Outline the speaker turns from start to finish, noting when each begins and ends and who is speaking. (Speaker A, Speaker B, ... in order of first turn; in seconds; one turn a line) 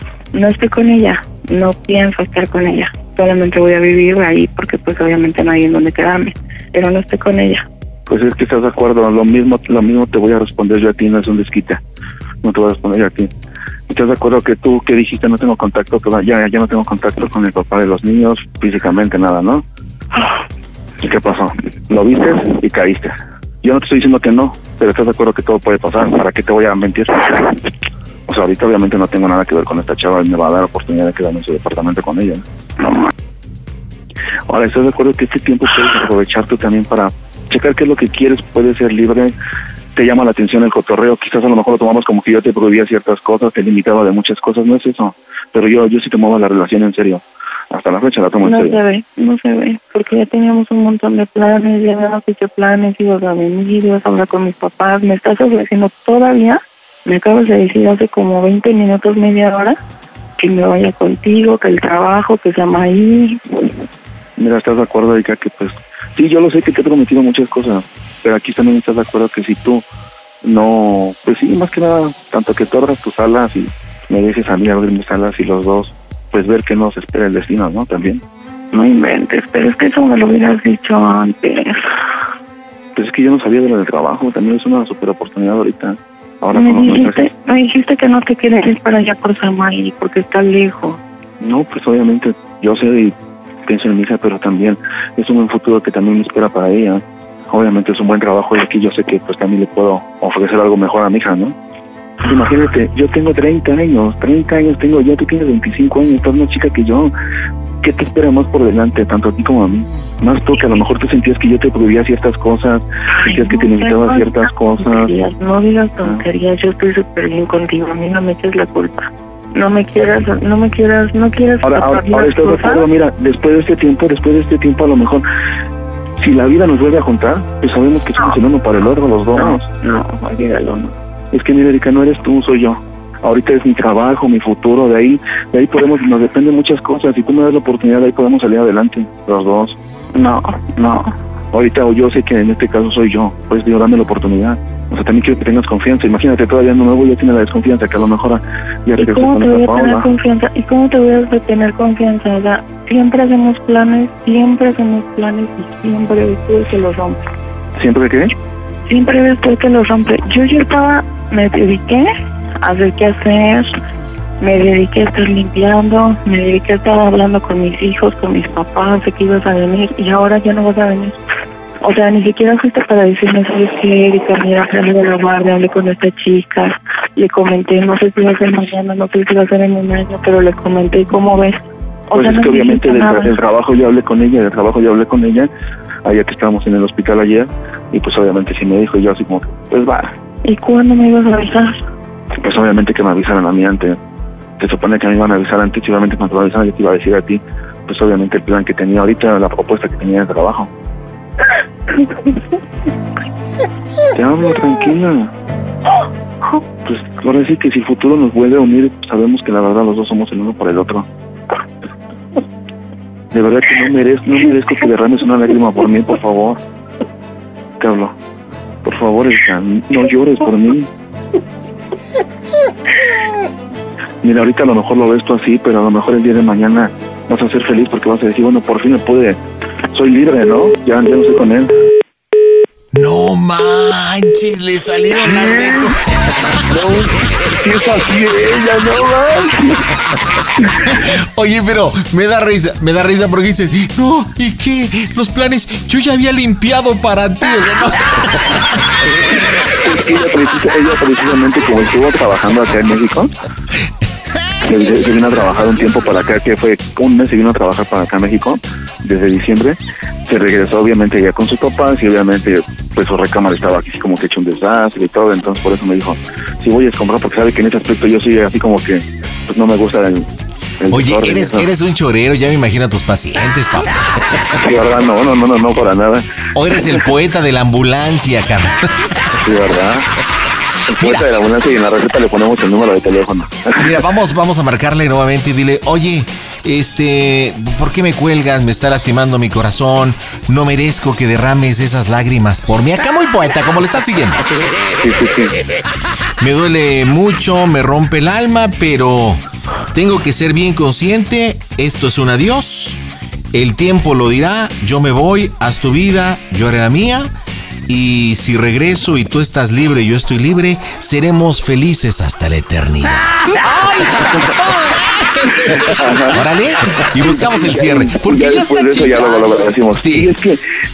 Speaker A: 0.3-7.6
Speaker B: 8.1-11.8
Speaker B: 12.4-13.3
Speaker B: 13.9-19.6
Speaker B: 21.0-27.5
Speaker B: 28.3-32.4
Speaker A: 32.8-33.1
Speaker B: 34.5-39.3
Speaker B: 39.9-48.8
Speaker A: 48.4-59.8
Speaker A: 60.4-63.8
Speaker B: 64.4-69.8
Speaker B: 70.4-78.2
Speaker A: 78.7-81.8
Speaker B: 82.9-87.3
Speaker A: 86.5-91.0
Speaker B: 91.4-101.5
Speaker B: 102.2-107.1
Speaker B: 107.8-115.1
Speaker A: 113.2-122.9
Speaker B: 121.6-125.2
Speaker B: 126.2-129.7
Speaker A: 129.3-130.9
Speaker B: 131.3-139.8
Speaker A: 140.1-141.1
Speaker B: 141.5-150.1
Speaker A: 149.0-157.2
Speaker B: 157.8-158.3
Speaker A: 158.9-162.1
Speaker A: 162.6-163.7
Speaker A: 164.4-171.2
Speaker A: 171.8-183.3
Speaker B: 182.1-185.5
Speaker B: 186.0-190.1
Speaker A: 190.4-191.7
Speaker B: 192.4-194.0
Speaker B: 194.6-200.7
Speaker B: 204.1-205.3
Speaker B: 206.8-211.1
Speaker B: 213.3-216.6
Speaker B: 217.8-218.1
Speaker B: 218.8-220.9
Speaker B: 224.2-229.4
Speaker B: 229.9-231.7
Speaker C: 232.9-236.0
Speaker B: 235.4-235.8
Speaker B: 236.7-237.1
Speaker B: 237.6-239.6
Speaker C: 240.9-248.4
Speaker B: 249.8-253.3
Speaker B: 254.6-270.3
Speaker B: 270.8-271.7
Speaker C: 270.9-274.1
Speaker B: 274.5-276.2
Speaker C: 276.5-278.9
Speaker B: 279.4-280.1
Speaker B: 280.9-283.8
Speaker C: 281.0-281.3
Speaker C: 283.8-294.4
Speaker B: 295.0-295.5
Speaker C: 296.4-299.4
Speaker C: 299.9-303.0
Speaker C: 303.5-307.3
Speaker C: 307.9-320.3
Speaker B: 315.7-316.4
Speaker B: 317.2-320.6